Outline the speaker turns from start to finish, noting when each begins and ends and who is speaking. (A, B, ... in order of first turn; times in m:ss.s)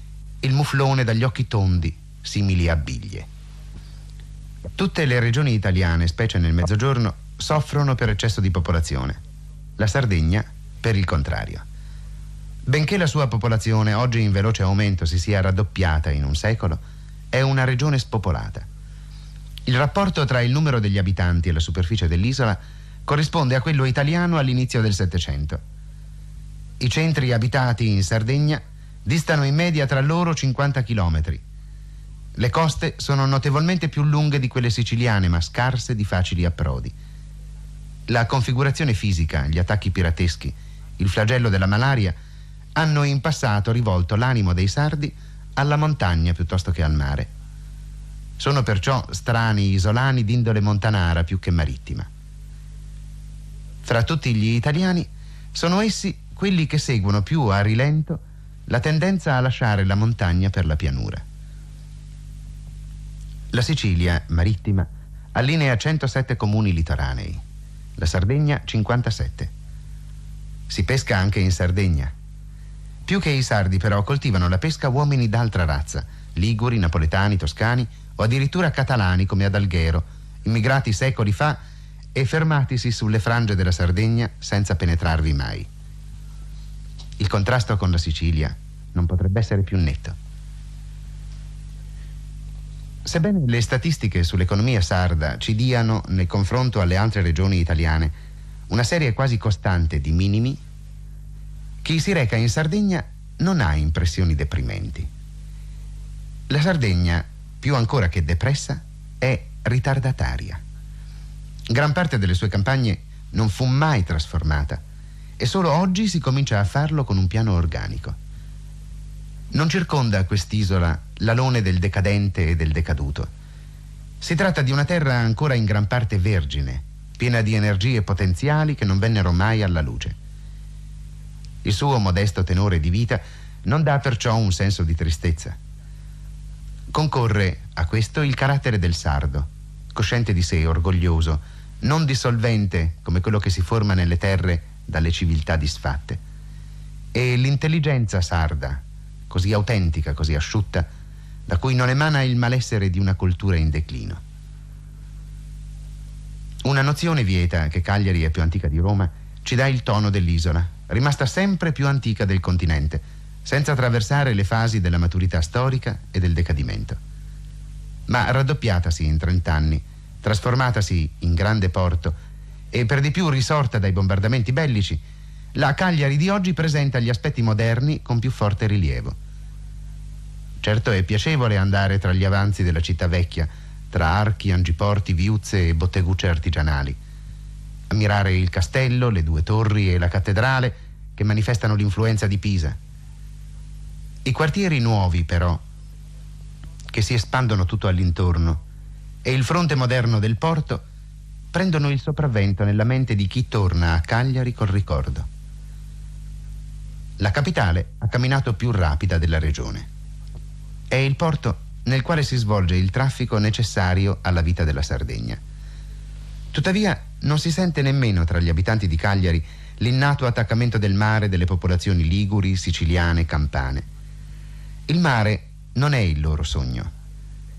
0:00.4-0:03.3 A
0:04.8-0:09.2 A
0:09.8-0:11.6 A
0:12.6-0:18.7 A
0:19.6-0:25.6 A
0:26.8-0:31.4 A
0:32.4-0:36.9 A
0:38.1-0:42.2 A
0:42.7-0:47.3 A
0:48.4-0:52.1 A
0:53.8-1:01.2 A
1:03.5-1:07.4 A
1:08.0-1:09.5 A
1:10.7-1:12.1 A
1:13.0-1:21.6 A
1:22.1-1:25.7 A
1:27.2-1:30.2 A
1:33.0-1:38.2 A
1:38.7-1:40.6 A
1:41.8-1:45.1 A
1:46.5-1:50.6 A
1:51.7-1:54.8 A
1:55.4-1:58.2 A
1:59.5-2:03.3 A
2:04.2-2:10.2 A
2:11.6-2:15.6 A
2:16.9-2:26.2 A
2:27.1-2:30.9 A
2:31.5-2:34.2 A
2:36.6-2:47.0 A
2:48.1-2:52.2 A
2:52.7-2:55.0 A
2:55.5-2:59.2 A
3:00.6-3:07.0 A
3:07.9-3:12.8 A
3:14.2-3:15.6 A
3:16.9-3:18.6 A
3:19.2-3:20.8 A
3:21.5-3:25.3 A
3:27.2-3:29.9 A
3:30.9-3:35.4 A
3:36.5-3:43.9 A
3:44.9-3:46.9 A